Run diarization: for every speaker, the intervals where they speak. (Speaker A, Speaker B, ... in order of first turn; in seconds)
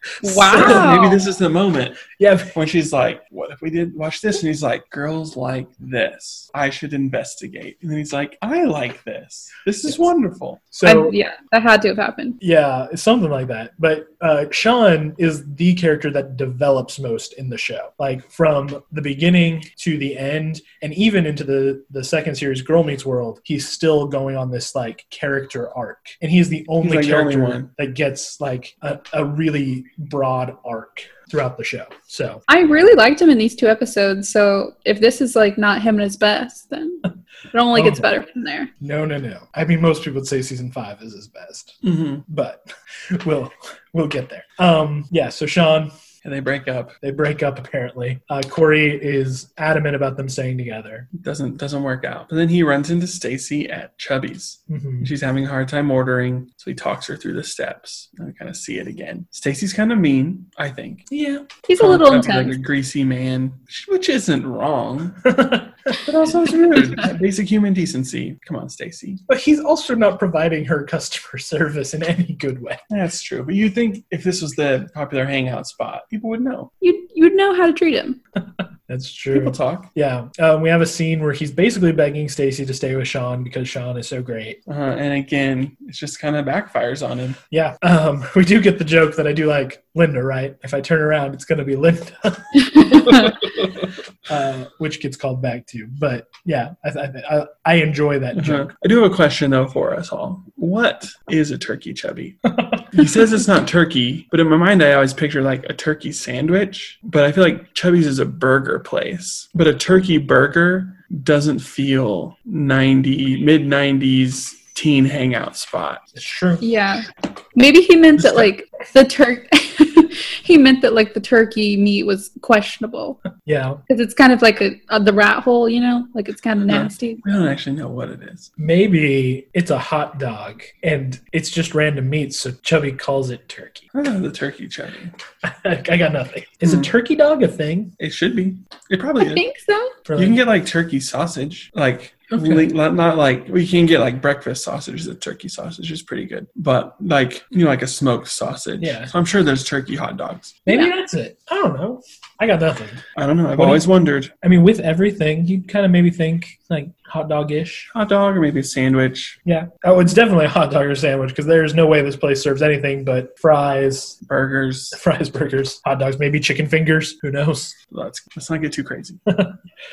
Speaker A: 0.2-1.2, 10.8-12.4, 32.5-38.7, 61.7-62.5, 76.8-78.2, 92.6-93.3, 116.6-123.2, 123.9-127.2, 139.2-139.9
Speaker B: 0.2-1.0, 2.1-2.5, 10.7-11.1, 12.4-32.4, 37.7-38.1, 38.8-45.9, 47.0-51.1, 54.7-55.1, 61.1-61.5, 65.2-66.0, 69.3-72.8, 78.9-84.6, 87.5-93.3, 94.3-98.7, 116.1-116.6, 123.4-123.8, 128.6-133.8, 135.4-137.9, 140.1-140.4, 142.3-142.7, 148.8-149.1, 150.7-153.0, 153.6-153.9, 154.4-157.9, 159.4-164.2, 164.9-167.8, 169.3-169.6
Speaker C: 0.5-10.6, 26.8-27.7, 41.8-42.2, 46.2-46.9, 51.1-61.1, 61.8-65.3, 65.9-69.2, 72.9-76.7, 79.3-79.9, 84.7-87.4, 98.3-116.0, 126.7-128.5, 133.9-135.1, 136.6-136.9, 138.0-139.5, 140.1-150.6, 153.2-154.3, 157.9-159.4, 164.3-165.0, 167.9-169.2